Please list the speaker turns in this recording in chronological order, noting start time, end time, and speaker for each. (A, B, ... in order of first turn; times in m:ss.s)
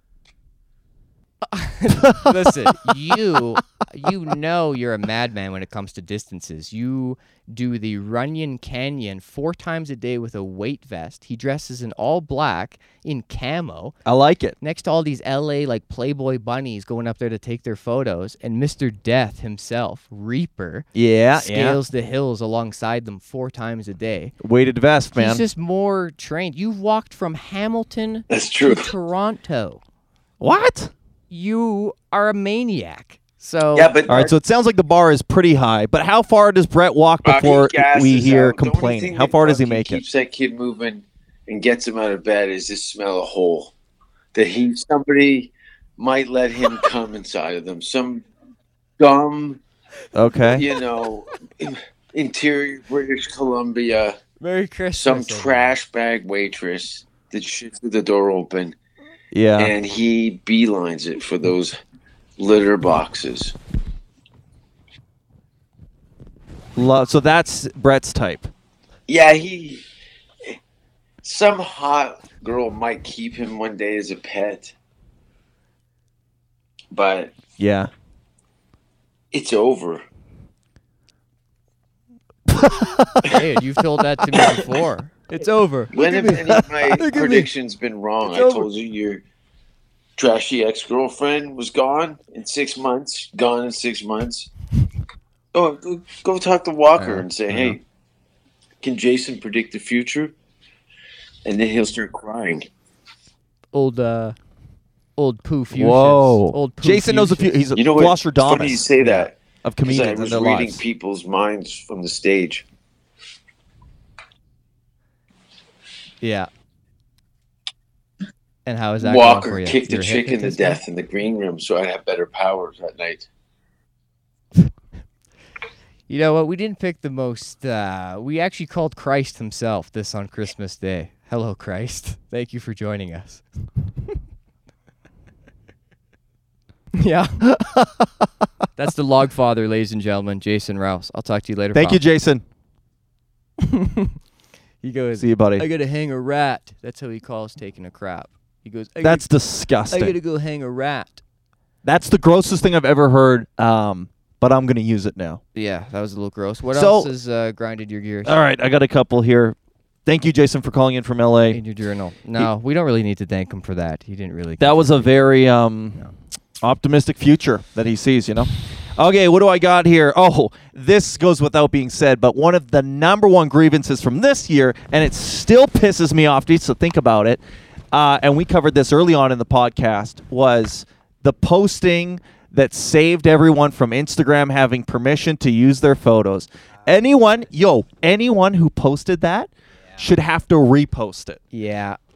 0:01.4-0:14.0 A
0:02.0-0:02.9 B
0:14.0-0:14.6 B
0:14.6-0:24.4 A
0:21.0-0:21.8 B
0:24.4-0:25.4 B
0:25.2-0:29.8 A
0:28.3-0:28.9 C
0:30.4-0:30.9 B
0:31.3-0:33.9 A
0:33.7-0:34.3 C
0:34.1-0:40.0 B
0:37.2-0:43.7 C
0:44.3-0:48.2 C
0:49.0-0:49.6 C
0:50.2-0:50.7 B
0:50.4-0:54.2 C
0:54.4-0:55.8 A
0:55.0-0:58.8 C
0:59.3-0:59.7 B
0:59.6-1:01.8 C
1:02.4-1:03.6 C
1:06.8-1:08.5 B
1:09.1-1:09.8 C
1:11.2-1:14.7 C
1:16.9-1:17.4 C
1:17.6-1:17.9 B
1:19.3-1:20.0 C
1:22.5-1:23.6 B
1:23.2-1:27.5 A
1:24.2-1:24.6 B
1:25.9-1:29.2 C
1:26.3-1:27.0 B
1:30.2-1:34.5 C
1:35.5-1:37.8 C
1:37.0-1:37.8 A
1:38.8-1:40.4 C
1:41.4-1:42.7 C
1:43.7-1:44.4 A
1:45.2-1:47.6 A
1:45.7-1:50.8 B
1:47.8-1:52.7 C
1:56.2-1:56.5 A
1:58.7-2:00.8 A
1:59.0-2:03.3 C
2:06.1-2:13.4 A
2:16.9-2:17.5 A
2:17.4-2:18.3 B
2:18.8-2:22.0 A
2:21.7-2:22.4 B
2:23.6-2:24.2 A
2:24.8-2:29.3 A
2:25.2-2:25.6 B
2:29.0-2:30.2 B
2:29.9-2:31.2 A
2:31.8-2:35.4 B
2:35.6-2:38.4 A
2:36.7-2:37.1 B
2:38.2-2:41.6 B
2:41.5-2:45.3 A
2:44.6-2:46.0 B
2:46.6-3:11.4 B
3:11.5-3:12.0 A